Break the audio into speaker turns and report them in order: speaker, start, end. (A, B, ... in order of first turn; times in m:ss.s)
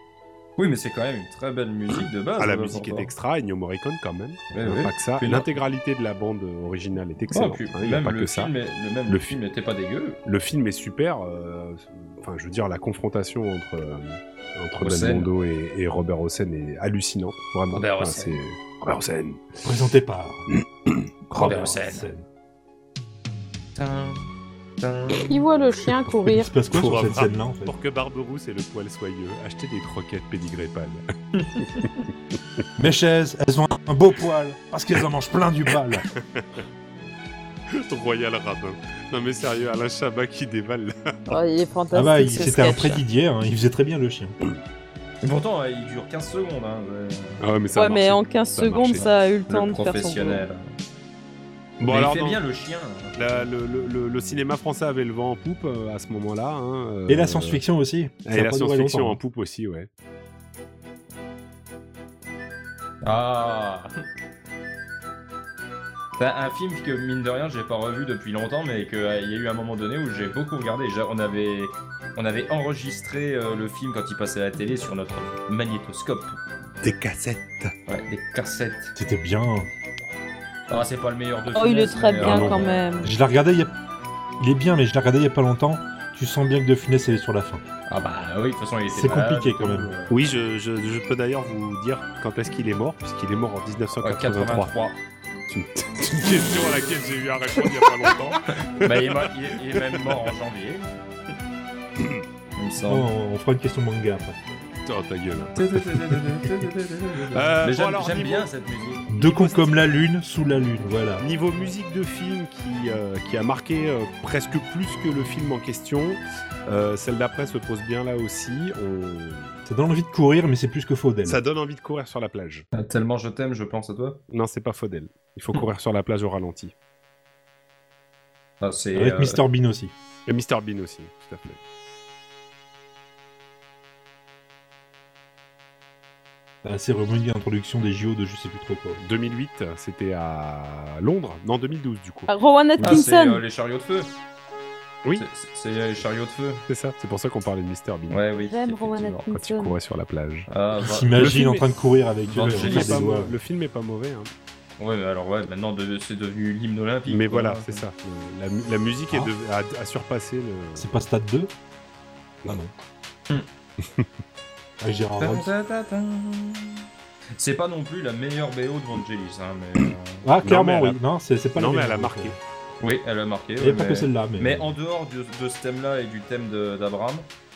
0:00.6-0:03.1 A
0:02.4-0:08.5 B
0:04.5-0:05.5 A
0:07.3-0:10.2 A
0:09.1-0:09.4 B
0:10.2-0:19.8 B
0:14.8-0:15.3 A
0:17.7-0:18.3 A
0:19.6-0:20.5 C
0:20.6-0:21.6 B
0:21.3-0:22.3 C
0:21.4-0:22.1 A
0:23.8-0:24.3 A
0:24.8-0:25.3 A
0:25.3-0:26.5 D
0:26.0-0:27.8 C
0:26.7-0:32.1 B
0:32.8-0:36.1 C
0:36.1-0:36.6 B
0:37.7-0:41.4 B
0:41.3-0:43.0 D
0:41.9-0:44.4 C
0:45.2-0:47.4 A
0:47.4-0:49.1 B
0:47.7-0:50.4 D
0:49.5-0:50.7 A
0:51.8-0:52.4 B
0:51.8-0:53.2 A
0:53.2-0:57.6 B
0:57.1-0:59.2 C
0:58.2-0:59.9 B
1:03.0-1:03.9 A
1:06.2-1:16.4 A
1:16.8-1:17.7 B
1:17.9-1:18.9 A
1:19.0-1:19.7 C
1:20.7-1:23.1 A
1:21.5-1:23.1 D
1:22.2-1:22.7 B
1:23.0-1:23.8 C
1:24.4-1:27.6 C
1:27.9-1:30.1 A
1:28.9-1:29.9 C
1:30.1-1:34.7 B
1:34.0-1:35.0 A
1:35.5-1:40.2 B
1:37.6-1:40.9 A
1:42.0-1:42.2 B
1:42.6-1:43.1 A
1:42.8-1:44.5 C
1:44.9-1:45.6 B
1:45.6-1:49.1 A
1:47.3-1:48.5 B
1:49.1-1:51.3 C
1:49.1-1:49.9 B
1:51.2-1:59.6 B
1:59.7-2:01.4 C
2:01.2-2:02.7 B
2:02.7-2:04.2 A
2:04.3-2:06.7 B
2:08.6-2:09.4 A
2:08.9-2:09.9 C
2:10.3-2:11.6 B
2:16.6-2:19.0 C
2:19.0-2:23.0 B
2:22.3-2:23.4 D
2:22.8-2:24.2 A
2:25.1-2:26.6 A
2:26.7-2:28.2 B
2:28.1-2:29.3 A
2:28.5-2:29.7 D
2:29.3-2:30.5 B
2:30.5-2:31.4 A
2:30.8-2:33.4 C
2:31.2-2:31.6 B
2:32.3-2:33.1 A
2:32.4-2:34.3 B
2:34.8-2:37.8 A
2:37.1-2:40.9 B
2:40.8-2:41.5 C
2:42.5-2:42.7 C
2:43.8-2:44.1 B
2:44.8-2:45.5 C
2:45.2-2:46.9 A
2:47.4-2:50.3 A
2:50.2-2:52.4 C
2:50.4-2:51.0 B
2:51.6-2:52.4 B
2:52.8-2:57.3 A
2:53.6-2:54.7 C